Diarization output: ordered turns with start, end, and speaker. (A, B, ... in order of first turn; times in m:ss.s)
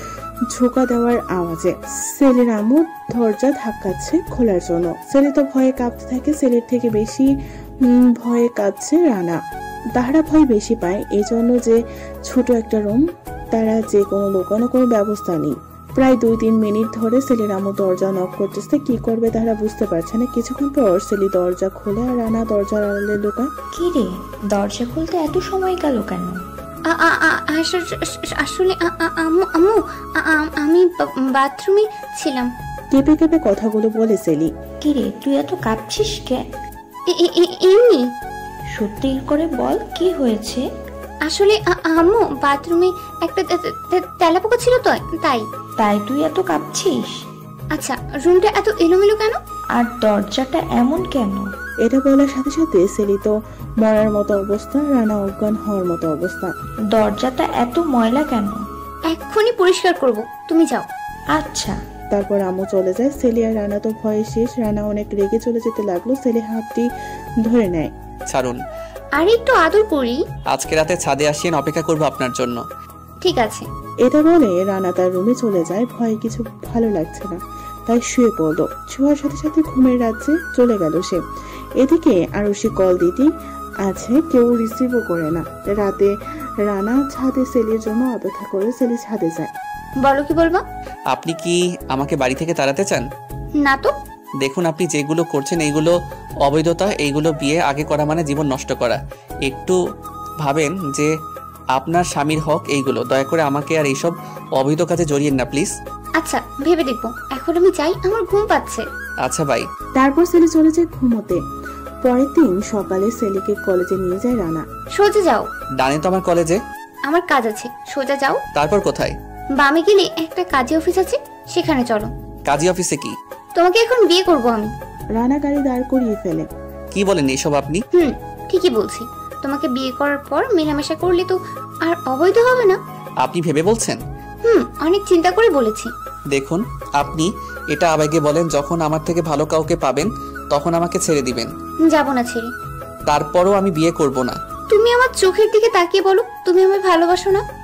0:00.5-0:07.3 A
0:07.8-0:09.4 A
0:10.0-0:23.5 A
0:23.7-0:26.4 B
0:26.9-0:32.5 C
0:32.9-0:34.5 A
0:34.8-0:36.4 B
0:37.1-0:38.1 C
0:38.8-0:40.6 B
0:41.3-0:45.5 C
0:45.8-0:47.2 B
0:47.7-0:49.4 C
0:49.8-0:51.4 B
0:51.8-0:56.5 A
0:56.9-0:58.6 B
0:59.1-1:00.9 C
1:01.3-1:01.8 B
1:02.1-1:06.9 A
1:07.4-1:07.9 A
1:08.3-1:08.6 D
1:09.2-1:10.2 C
1:10.5-1:12.6 D
1:13.2-1:13.7 C
1:14.0-1:21.2 A
1:21.8-1:23.3 A
1:23.8-1:26.1 A
1:26.6-1:29.5 A
1:30.0-1:30.6 C
1:31.1-1:33.0 D
1:33.6-1:33.9 C
1:34.4-1:35.9 D
1:36.4-1:39.8 D
1:40.4-1:41.1 D
1:41.8-1:45.8 D
1:46.2-1:48.9 C
1:49.2-1:49.7 D
1:50.0-1:51.4 A
1:52.0-1:54.7 A
1:55.0-1:55.5 C
1:55.8-1:56.6 D
1:57.1-1:58.4 C
1:58.6-1:59.2 D
1:59.6-2:02.1 C
2:02.5-2:03.2 D
2:03.6-2:04.7 C
2:05.2-2:06.5 A
2:06.9-2:07.8 D
2:07.9-2:12.8 C
2:13.2-2:14.0 D
2:14.4-2:15.9 C
2:16.3-2:21.5 D
2:21.8-2:22.5 C
2:23.1-2:24.4 D
2:24.7-2:27.4 C